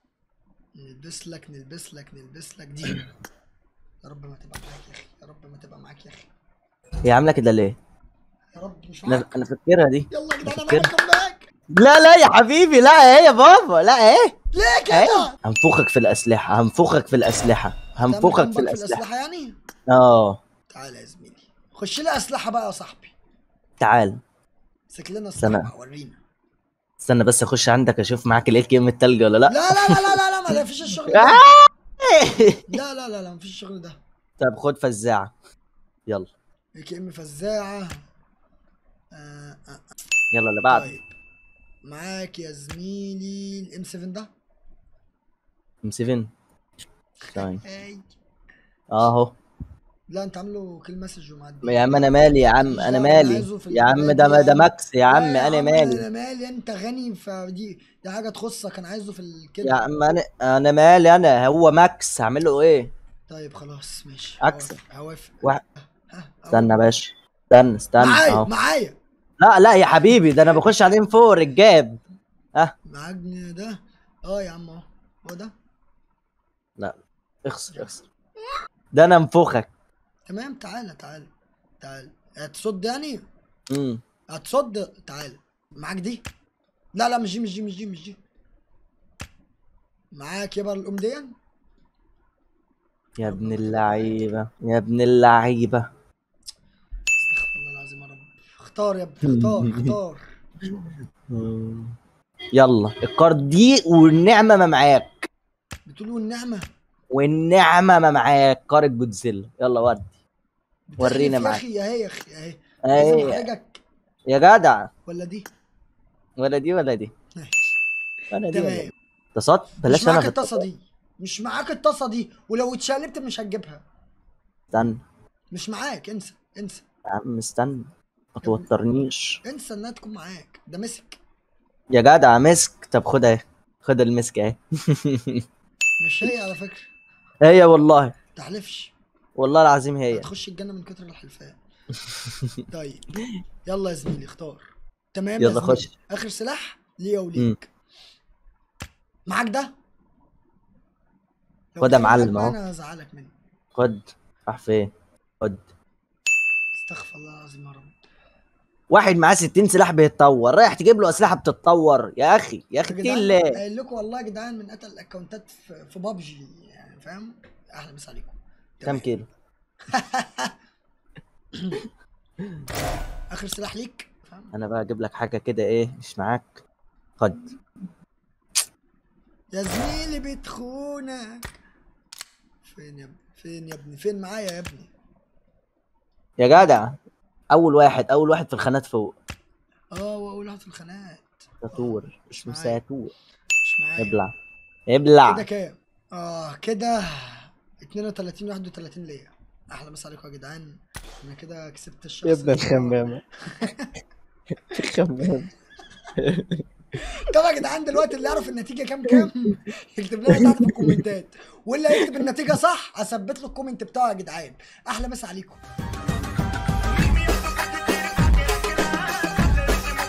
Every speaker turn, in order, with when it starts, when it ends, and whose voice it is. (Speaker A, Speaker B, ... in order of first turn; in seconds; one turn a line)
Speaker A: 0.8-3.0
Speaker A: 4.0-6.3
Speaker B: 7.1-7.8
Speaker A: 8.6-9.4
Speaker B: 9.1-10.9
Speaker A: 10.1-11.5
Speaker B: 11.7-14.3
Speaker A: 14.5-15.4
Speaker B: 14.9-19.0
Speaker A: 18.0-19.6
Speaker B: 19.9-20.4
Speaker A: 20.7-23.1
Speaker B: 23.8-24.2
Speaker A: 24.9-26.2
Speaker B: 25.4-25.7
Speaker B: 27.0-30.1
Speaker A: 29.5-31.4
Speaker B: 31.1-32.6
Speaker A: 32.7-34.0
Speaker B: 34.4-35.3
Speaker A: 36.8-38.0
Speaker A: 39.1-39.8
Speaker B: 40.3-40.9
Speaker A: 40.7-41.1
Speaker A: 41.9-44.3
Speaker B: 45.8-46.3
Speaker A: 47.3-48.1
Speaker B: 47.4-47.6
Speaker B: 48.9-49.4
Speaker A: 50.1-59.9
Speaker B: 51.6-56.0
Speaker B: 59.6-62.9
Speaker A: 63.3-65.4
Speaker B: 64.4-64.8
Speaker A: 66.0-66.8
Speaker B: 66.5-68.5
Speaker A: 68.0-69.0
Speaker B: 69.4-72.0
Speaker A: 72.9-75.5
Speaker B: 76.8-78.0
Speaker B: 78.9-79.7
Speaker A: 80.3-83.2
Speaker B: 83.7-84.0
Speaker A: 84.3-86.3
Speaker A: 87.0-88.2
Speaker A: 90.1-91.3
Speaker B: 93.2-95.9
Speaker A: 93.2-94.3
Speaker A: 97.2-100.3
Speaker B: 99.2-100.0
Speaker B: 100.7-102.0
Speaker B: 102.6-105.1
Speaker A: 105.9-106.7
Speaker B: 107.1-110.1
Speaker A: 110.9-113.8
Speaker B: 111.0-111.6
Speaker B: 112.8-113.5
Speaker B: 114.3-114.9
Speaker A: 115.1-115.5
Speaker B: 116.4-117.1
Speaker A: 117.4-117.7
Speaker B: 118.3-120.6
Speaker A: 118.5-118.9
Speaker A: 119.9-123.8
Speaker B: 124.7-125.0
Speaker A: 125.5-126.8
Speaker B: 127.1-129.4
Speaker A: 128.4-128.7
Speaker A: 129.4-131.2
Speaker B: 131.9-135.4
Speaker A: 136.0-136.9
Speaker B: 137.4-138.2
Speaker A: 138.3-138.9
Speaker B: 139.4-140.3
Speaker A: 140.1-141.6
Speaker B: 142.1-142.5
Speaker A: 142.7-143.0
Speaker A: 143.7-147.7
Speaker B: 145.4-145.9
Speaker A: 149.3-149.7
Speaker A: 151.8-153.3
Speaker B: 151.8-152.6
Speaker B: 153.8-155.6
Speaker A: 156.8-158.0
Speaker B: 158.9-163.6
Speaker A: 162.8-169.1
Speaker B: 168.8-169.3
Speaker A: 169.9-170.5
Speaker A: 172.8-174.5
Speaker B: 174.5-176.6
Speaker B: 177.2-177.5
Speaker A: 179.5-181.5
Speaker A: 182.6-184.9
Speaker B: 186.4-187.0
Speaker A: 186.5-186.8
Speaker B: 187.5-189.2
Speaker A: 189.9-192.8
Speaker B: 191.6-193.1
Speaker A: 193.6-194.2
Speaker B: 194.0-194.3
Speaker B: 194.9-195.4
Speaker A: 195.2-203.9
Speaker B: 202.2-203.2
Speaker B: 204.7-205.5
Speaker B: 206.2-206.6
Speaker A: 207.2-215.6
Speaker B: 210.3-211.0
Speaker B: 212.0-212.2
Speaker B: 216.9-217.5